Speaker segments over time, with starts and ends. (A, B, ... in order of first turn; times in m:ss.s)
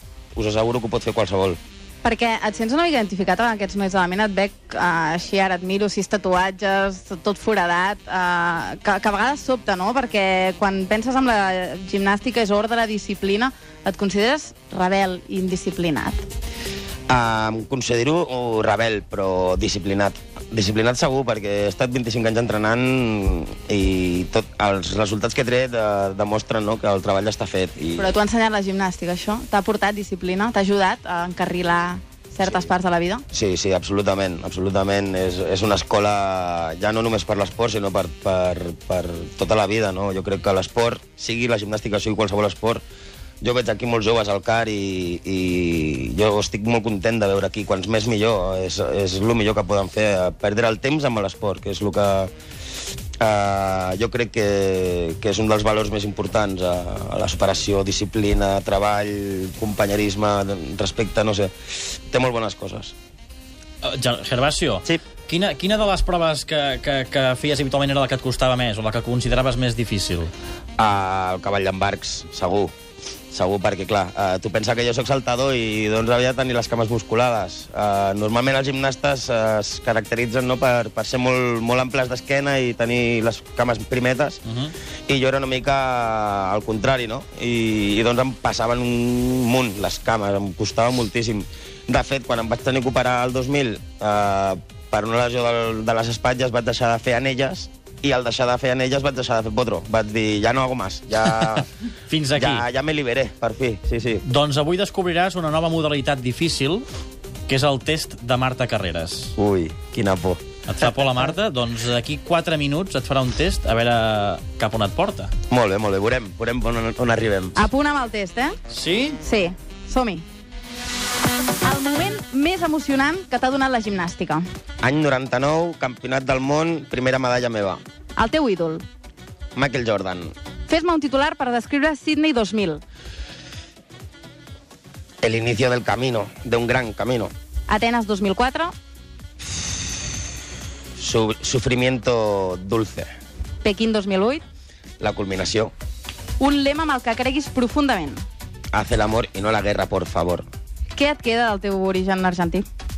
0:00.4-0:01.6 A
0:02.0-0:16.2 B
0:17.1-0:28.1 A
0:28.0-0:33.2 B
0:33.3-0:42.8 A
0:43.4-0:52.3 A
0:53.2-1:01.5 A
1:02.1-1:02.9 A
1:03.8-1:10.3 C
1:10.8-1:12.7 A
1:13.3-1:24.4 A
1:24.4-1:24.7 C
1:25.1-1:41.7 A
1:41.4-1:42.6 C
1:42.3-1:44.2 A
1:44.2-1:46.8 C
1:47.5-1:49.4 C
1:49.4-1:50.4 A
1:50.7-1:55.3 C
1:55.5-1:57.7 A
1:57.6-1:58.6 B
1:58.7-1:59.2 C
1:59.2-2:00.2 B
2:01.6-2:04.4 B
2:04.8-2:07.8 A
2:08.2-2:08.8 B
2:09.6-2:10.3 A
2:10.7-2:12.8 B
2:15.2-2:17.3 A
2:17.7-2:18.7 B
2:21.0-2:23.1 A
2:23.6-2:24.4 B
2:25.0-2:25.7 A
2:26.4-2:28.2 B
2:28.7-2:30.4 A
2:30.9-2:32.7 B